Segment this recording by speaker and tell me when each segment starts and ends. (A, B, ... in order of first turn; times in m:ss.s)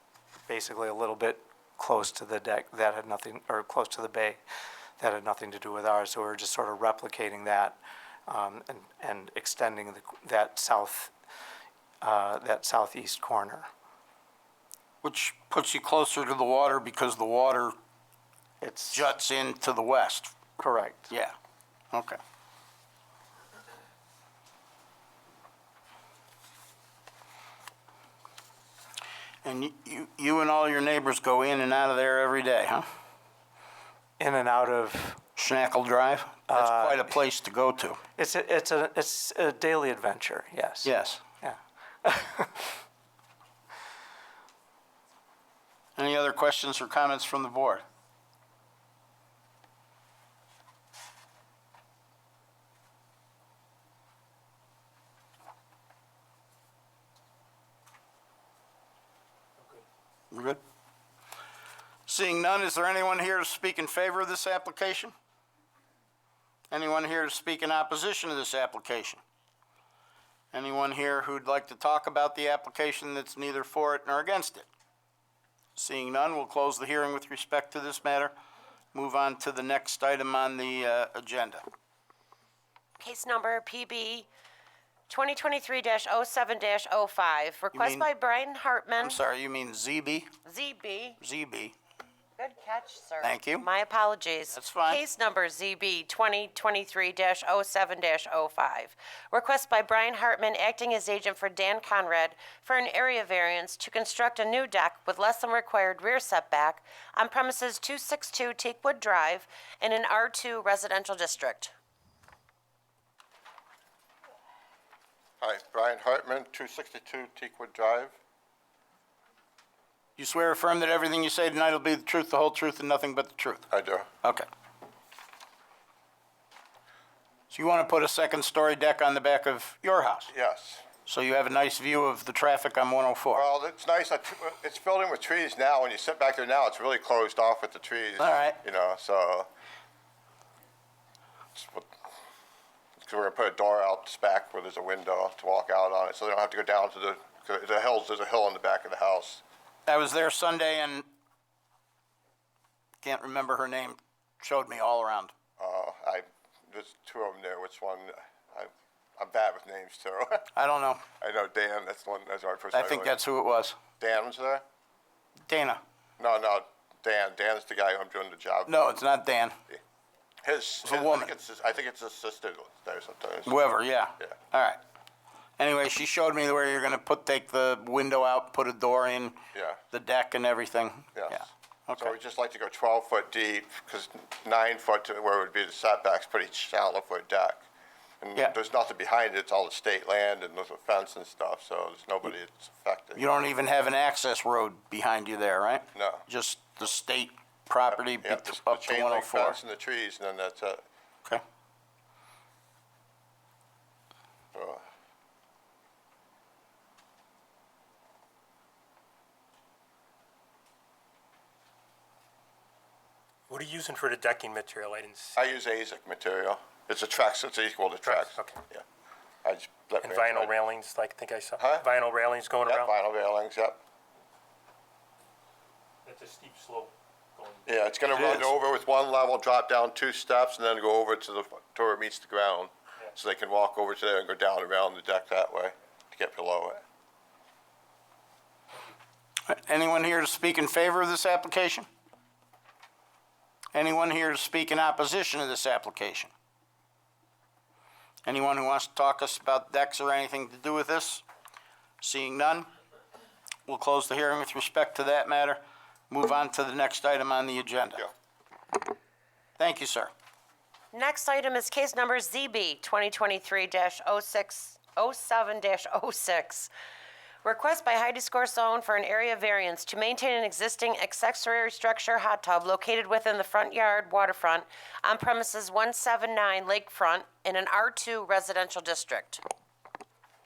0:00.5-0:04.4 A
0:05.0-0:11.1 A
0:12.0-0:13.7 A
0:15.0-0:17.7 B
0:18.6-0:19.1 A
0:18.9-0:20.4 B
0:20.6-0:21.1 A
0:21.9-0:22.2 B
0:29.4-0:32.8 B
0:34.2-0:35.2 A
0:35.4-0:38.0 B
0:36.5-0:37.0 A
0:38.2-0:40.9 A
0:40.8-0:41.2 B
0:41.4-0:42.7 A
0:46.0-0:47.8 B
1:00.3-1:00.6 B
1:02.1-1:05.1 B
1:06.7-1:09.2 B
1:10.5-1:14.6 B
1:15.8-1:18.3 B
1:18.9-1:21.6 B
1:23.0-1:24.3 C
1:25.1-1:29.2 C
1:27.7-1:28.1 B
1:29.0-1:30.3 B
1:30.4-1:31.2 C
1:31.2-1:31.7 B
1:32.4-1:51.7 C
1:33.2-1:33.7 B
1:34.5-1:35.0 B
1:55.4-1:58.1 D
2:00.2-2:03.7 B
2:03.7-2:04.1 D
2:07.5-2:10.3 B
2:10.3-2:10.8 D
2:11.0-2:13.4 B
2:13.3-2:19.5 D
2:18.2-2:18.6 B
2:21.6-2:21.9 D
2:23.0-2:29.4 D
2:29.9-2:31.0 B
2:33.0-2:35.3 B
2:35.6-2:40.5 D
2:40.5-2:41.0 B
2:41.2-2:43.1 D
2:42.7-2:43.8 B
2:44.0-2:44.6 D
2:45.5-2:45.8 B
2:46.2-2:48.8 D
2:48.7-2:49.6 B
2:50.4-2:53.5 D
2:50.8-2:51.3 B
2:53.4-2:54.8 B
2:55.6-2:59.4 B
2:59.5-2:59.8 D
2:59.9-3:02.1 B
3:01.1-3:01.4 D
3:02.0-3:07.6 D
3:08.2-3:13.2 D
3:13.2-3:19.6 B
3:15.9-3:16.2 D
3:18.2-3:20.8 D
3:24.5-3:24.8 D
3:33.5-3:35.4 E
3:35.4-3:38.8 D
3:38.0-3:38.6 E
3:39.4-3:40.5 D
3:40.0-3:42.9 E
3:41.6-3:41.8 D
3:42.6-3:43.8 D
3:46.0-3:48.2 E
3:47.7-3:56.8 D
3:48.2-3:48.5 B
3:59.4-4:01.9 B
4:03.7-4:06.3 B
4:08.2-4:11.2 B
4:12.0-4:12.7 B
4:13.7-4:18.1 B
4:19.6-4:20.1 B
4:20.9-4:26.7 C
4:27.4-4:39.4 C